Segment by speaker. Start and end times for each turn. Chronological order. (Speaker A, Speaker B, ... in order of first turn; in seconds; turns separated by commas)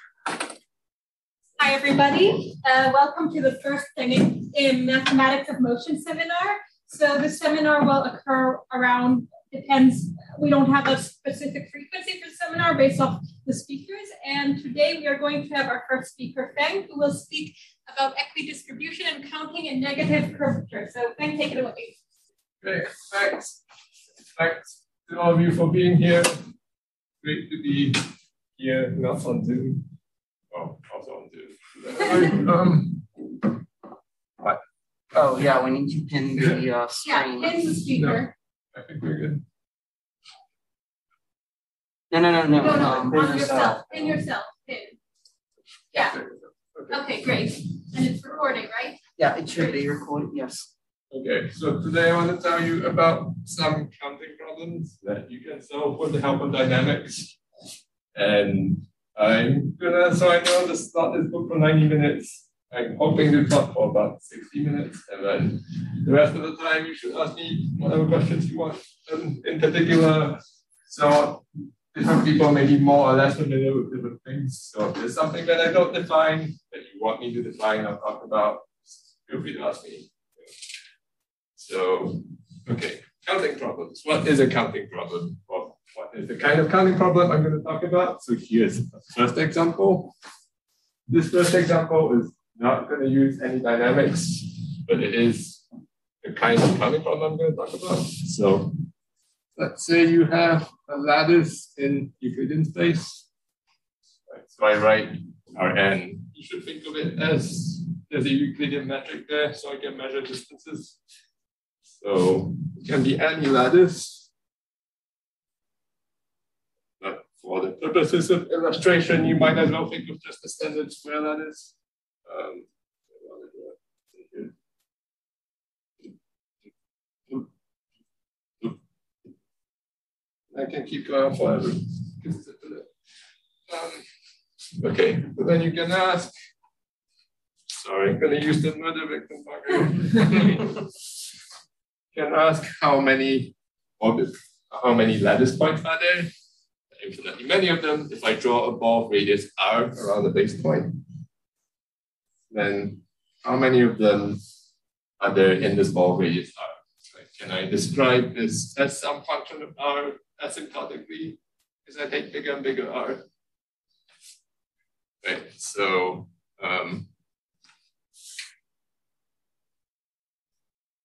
Speaker A: 1.6-21.9, Speaker B: 22.6-23.6, Speaker B: 24.4-26.4, Speaker B: 27.2-29.9, Speaker B: 30.5-33.1, Speaker C: 35.1-37.5, Speaker B: 36.4-36.6, Speaker A: 37.0-38.3, Speaker B: 37.9-39.4, Speaker C: 42.1-44.1, Speaker A: 42.5-45.0, Speaker A: 45.9-46.2, Speaker B: 45.9-47.0, Speaker A: 46.9-49.0, Speaker C: 49.2-50.7, Speaker A: 49.5-49.8, Speaker B: 51.1-57.4, Speaker B: 58.1-80.5, Speaker B: 81.6-90.1, Speaker B: 91.1-95.6, Speaker B: 96.2-98.7, Speaker B: 99.5-103.3, Speaker B: 104.3-111.0, Speaker B: 111.9-114.3, Speaker B: 117.0-121.7, Speaker B: 122.2-124.5, Speaker B: 130.5-132.9, Speaker B: 133.7-134.0, Speaker B: 134.8-136.3, Speaker B: 137.7-140.9, Speaker B: 142.1-146.3, Speaker B: 147.0-151.0, Speaker B: 152.5-154.4, Speaker B: 155.2-163.2, Speaker B: 165.2-167.1